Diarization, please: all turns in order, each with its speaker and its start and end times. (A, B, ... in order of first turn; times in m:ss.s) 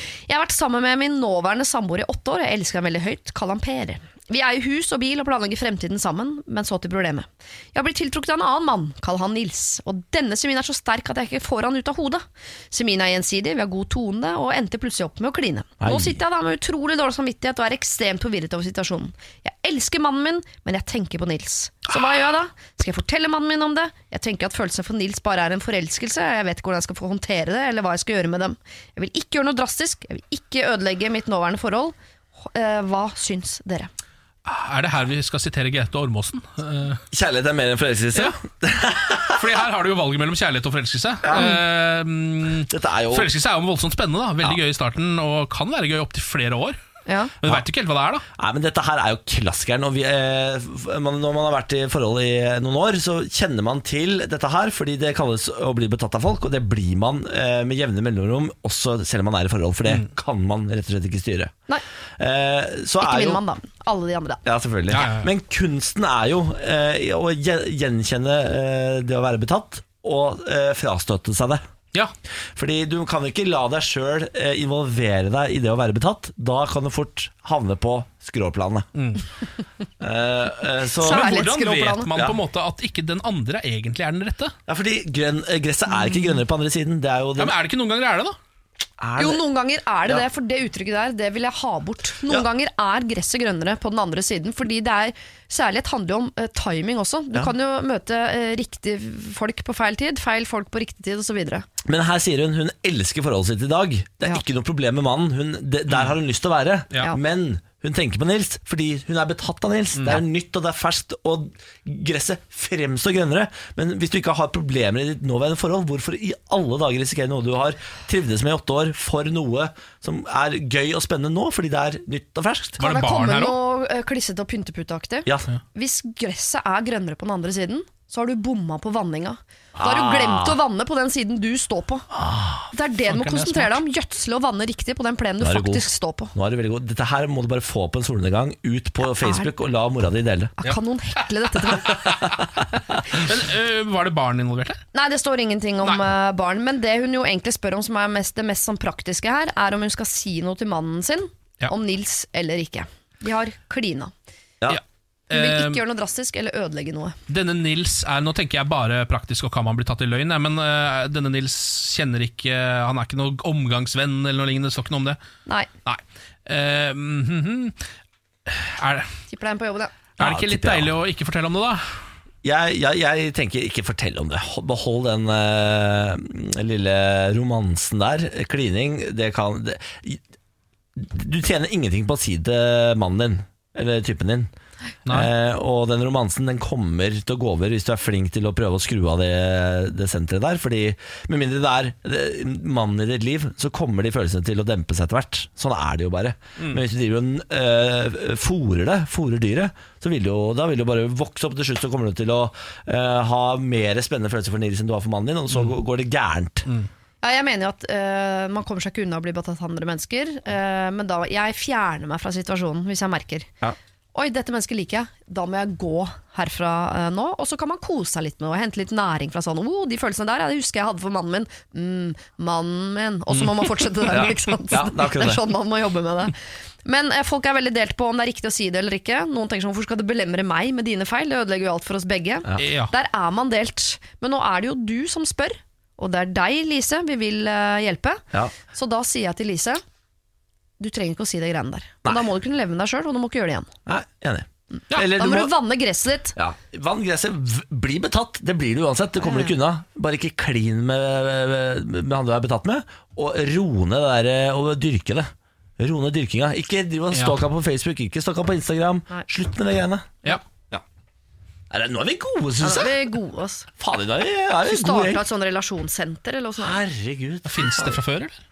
0:00.3-0:31.9 A
0:15.8-0:16.2 B
0:32.4-0:33.9 A
0:34.4-0:37.0 C
0:37.1-0:39.5 B
0:39.3-0:46.8 C
0:41.2-0:41.6 B
0:41.3-0:41.6 A
0:42.7-0:43.3 B
0:47.1-0:47.3 A
0:47.4-0:48.2 C
0:48.4-1:01.5 B
1:02.2-1:03.4 B
1:03.0-1:04.4 A
1:04.4-1:11.6 B
1:04.9-1:05.3 C
1:12.5-1:18.9 B
1:18.9-1:19.2 C
1:20.0-1:21.3 B
1:21.0-1:22.1 A
1:21.0-1:24.5 C
1:22.1-1:22.4 B
1:24.7-1:27.5 B
1:27.4-1:28.4 C
1:29.0-1:29.4 B
1:29.2-1:41.6 A
1:41.8-2:02.8 B
1:46.9-1:47.2 C
1:49.9-1:50.2 C
2:02.8-2:03.6 C
2:02.8-2:12.1 A
2:09.8-2:10.6 B
2:12.1-2:12.7 B
2:12.7-2:16.3 A
2:13.0-2:13.8 C
2:15.4-2:20.5 B
2:19.2-2:19.5 A
2:20.6-2:22.2 A
2:21.5-2:22.4 C
2:22.0-2:22.6 B
2:23.1-2:24.8 C
2:24.9-2:34.1 A
2:25.8-2:26.1 C
2:34.7-2:35.8 C
2:35.3-2:37.2 A
2:37.3-2:45.2 C
2:45.8-2:47.8 C
2:48.4-2:49.1 C
2:49.3-2:49.9 A
2:50.2-2:51.8 C
2:50.2-2:50.9 B
2:52.4-3:00.2 B
3:01.0-3:04.5 B
3:05.1-3:26.7 B
3:27.2-3:33.5 A
3:34.1-3:59.8 A
3:43.3-3:44.3 C
3:44.1-3:45.4 B
3:52.6-3:52.9 C
4:00.8-4:03.7 A
4:03.8-4:05.5 B
4:04.8-4:06.4 A
4:06.4-4:20.8 B
4:09.2-4:09.5 A
4:17.1-4:17.4 C
4:21.7-4:23.0 B
4:22.6-4:23.7 A
4:23.8-4:25.2 B
4:24.6-4:26.8 A
4:26.6-4:28.0 B
4:27.4-4:28.4 C